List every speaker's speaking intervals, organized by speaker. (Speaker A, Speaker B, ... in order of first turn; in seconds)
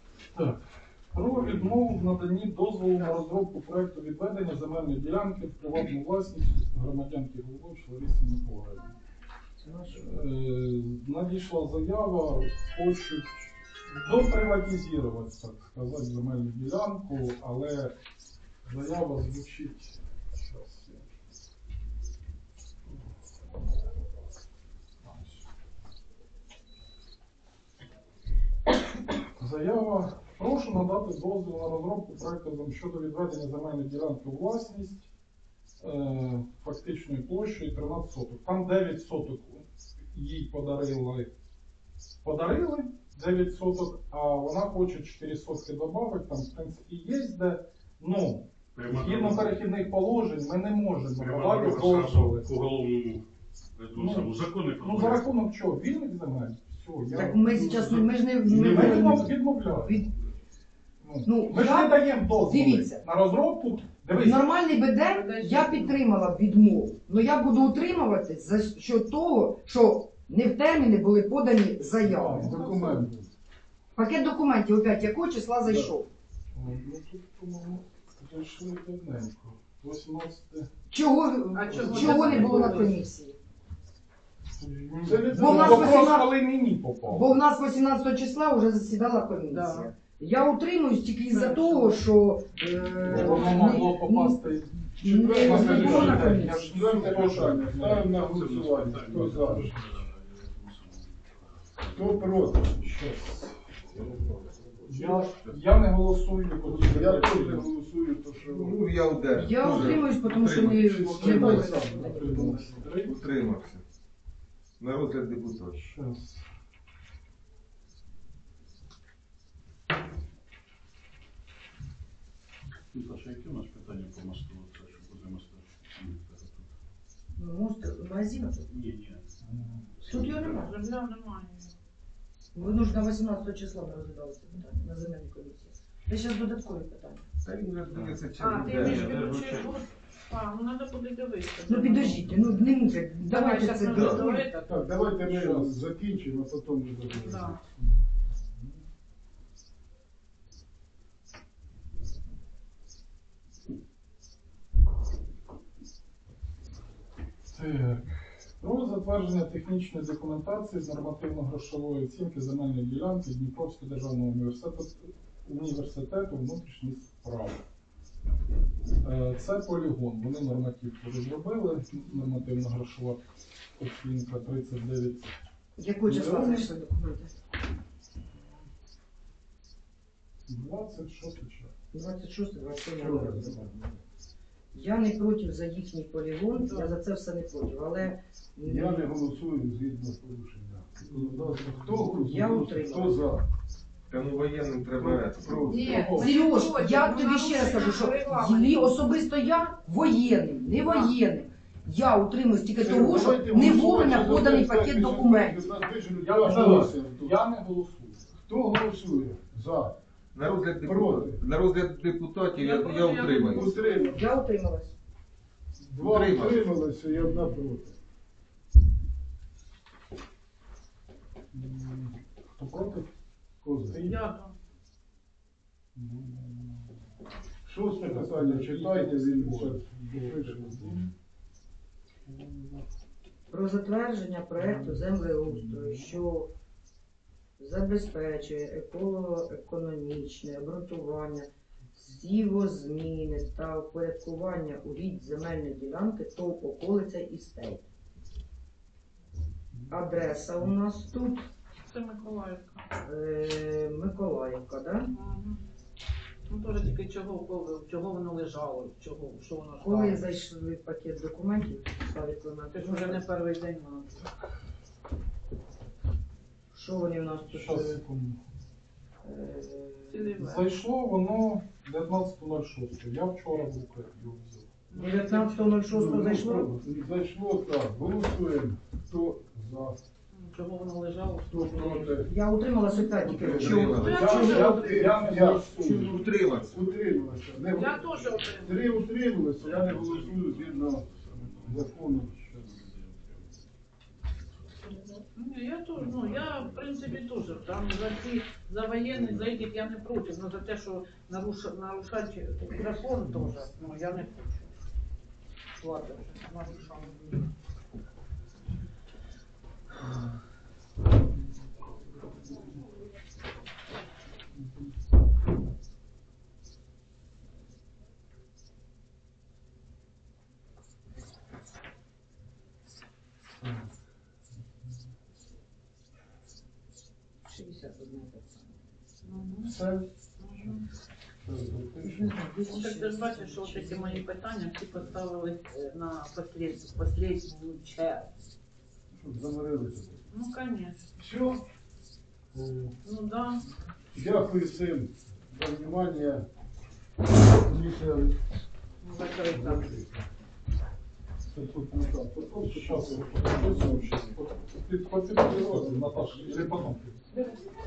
Speaker A: 0.3-9.0, 9.9-17.9, 18.6-21.0, 25.0-25.4, 29.4-35.1, 35.8-41.3, 42.2-52.5, 54.0-60.0, 61.0-64.4, 72.0-73.1, 76.5-80.7, 82.1-82.5, 84.5-87.4, 93.0-98.2, 99.0-99.9, 102.8-103.5, 104.9-107.7, 111.0-113.2, 115.7-116.4, 129.4-129.8, 145.2-145.8, 157.5-167.6, 169.0-173.2, 173.8-175.3, 180.5-181.7, 191.1-192.0, 195.8-196.3, 206.2-208.2, 221.5-223.1, 223.9-224.2, 225.9-226.9, 227.9-231.1, 232.3-232.8, 234.6-236.2, 249.7-250.0, 267.5-268.4, 270.4-274.7, 284.0-286.3, 303.3-303.6, 310.0-310.4, 312.4-312.7, 342.5-342.9, 352.6-357.2
Speaker B: 9.6-10.1, 57.1-60.1, 61.2-63.1, 64.1-72.5, 74.0-76.1, 80.9-83.4, 85.3-86.4, 87.1-97.2, 109.3-112.8, 127.3-128.8, 130.0-130.7, 132.5-137.2, 141.7-144.5, 175.8-177.3, 181.9-184.0, 184.7-189.1, 191.9-193.2, 196.1-205.7, 214.0-214.9, 233.5-236.5, 237.6-247.8, 249.9-251.4, 253.0-255.1, 259.8-263.3, 266.7-268.0, 269.2-270.3, 274.9-276.8, 282.1-284.1, 327.4-328.8, 332.0-334.3, 357.3-357.6
Speaker C: 48.7-49.6, 51.1-53.2, 53.8-55.4, 97.0-102.5, 122.9-126.7, 128.7-129.2, 130.0-130.6, 283.5-283.8, 288.1-288.7, 289.4-293.6, 296.2-297.5
Speaker D: 57.5-57.9, 58.7-59.2, 72.4-73.3, 75.6-75.9, 81.7-82.8, 85.0-86.1, 95.0-99.7, 101.9-102.7, 106.6-108.8, 111.2-112.1, 144.6-147.6, 176.1-176.7, 183.0-183.7, 188.6-193.4, 195.0-196.0, 202.8-207.3, 208.5-210.0, 210.8-211.4, 213.5-214.3, 215.9-217.9, 223.6-224.0, 227.6-231.1, 275.9-280.0, 281.5-282.3, 284.1-286.1, 286.7-291.1, 291.6-292.3, 329.6-330.1, 331.4-332.3, 339.1-340.2, 341.2-341.6, 344.1-346.4, 347.6-348.4, 349.5-350.2, 351.5-354.1, 355.4-356.1
Speaker E: 65.0-66.0, 81.5-82.9, 89.5-89.9, 91.3-92.0, 130.5-131.7, 138.4-142.2, 143.2-144.7, 147.1-147.6, 186.5-186.9, 195.7-198.9, 200.8-201.2, 212.5-213.9, 224.1-224.5, 251.8-252.8, 255.1-255.6, 256.5-260.2, 262.7-264.2, 270.1-270.7, 274.9-275.8, 280.3-282.2, 283.0-283.3, 283.9-285.2, 287.7-289.0, 295.3-304.7, 305.8-307.3, 329.2-329.8, 330.4-330.8, 332.7-338.3, 340.3-341.0, 343.0-343.6, 349.0-349.9
Speaker F: 104.0-105.5, 108.4-111.7, 113.0-113.8, 114.8-115.9, 137.4-139.8, 143.9-144.3, 194.1-195.9, 210.3-213.7, 216.0-216.7, 283.3-284.7, 285.7-286.9